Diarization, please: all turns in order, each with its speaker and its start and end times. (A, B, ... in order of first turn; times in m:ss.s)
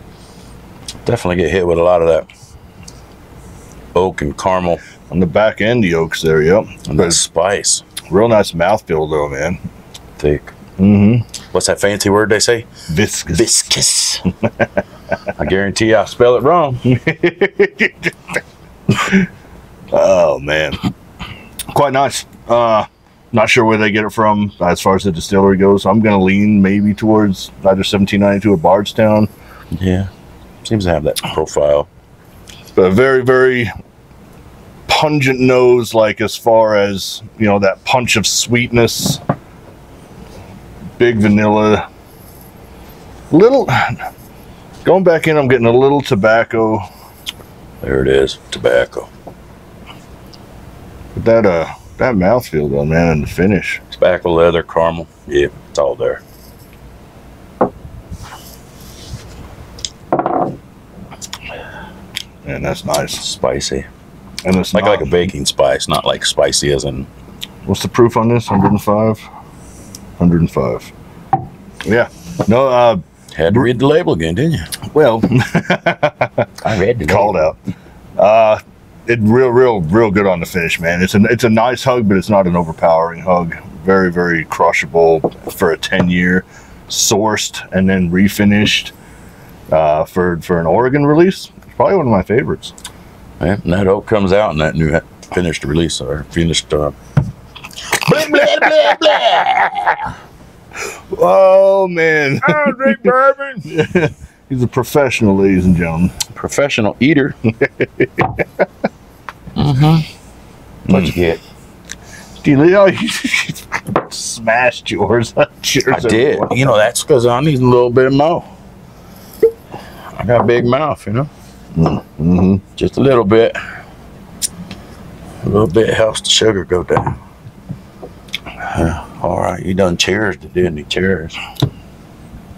0:01.0-0:02.3 A
0:04.0-0:04.8 A
0:05.1-0:07.2 B
0:06.9-0:07.8 A
0:08.1-0:09.6 B
0:10.2-0:10.5 A
0:10.8-0:11.3 B
0:11.5-0:12.7 A
0:12.9-0:13.6 B
0:13.3-0:14.3 A
0:15.4-0:16.8 A
0:16.9-0:18.1 B
0:18.9-0:19.3 B
0:19.9-0:20.8 B
0:21.7-0:29.3 B
0:29.7-0:30.1 A
0:30.6-0:31.9 A
0:32.8-0:33.7 B
0:34.9-0:39.2 B
0:41.0-0:41.8 B
0:43.3-0:44.0 B
0:44.8-0:46.8 B
0:47.8-0:49.1 A
0:51.2-0:53.8 B
0:53.9-0:56.2 A
1:02.4-1:03.2 B
1:03.2-1:03.9 A
1:04.4-1:05.3 B
1:04.7-1:07.1 A
1:07.7-1:09.2 B
1:10.2-1:10.9 B
1:11.8-1:13.7 B
1:13.3-1:14.7 A
1:14.9-1:16.5 B
1:16.6-1:17.4 A
1:17.0-1:17.6 B
1:18.2-1:28.9 B
1:29.7-1:32.7 B
1:33.4-1:37.0 A
1:37.9-1:40.1 A
1:41.1-1:46.2 B
1:46.3-1:47.4 A
1:47.6-1:48.5 B
1:49.6-1:50.1 A
1:50.9-1:51.4 A
1:50.9-1:51.2 B
1:52.4-1:56.7 B
1:55.9-1:58.5 A
2:00.2-2:01.3 A
2:01.8-2:02.6 B
2:02.8-2:03.6 A
2:05.4-2:07.2 A
2:08.6-2:11.4 A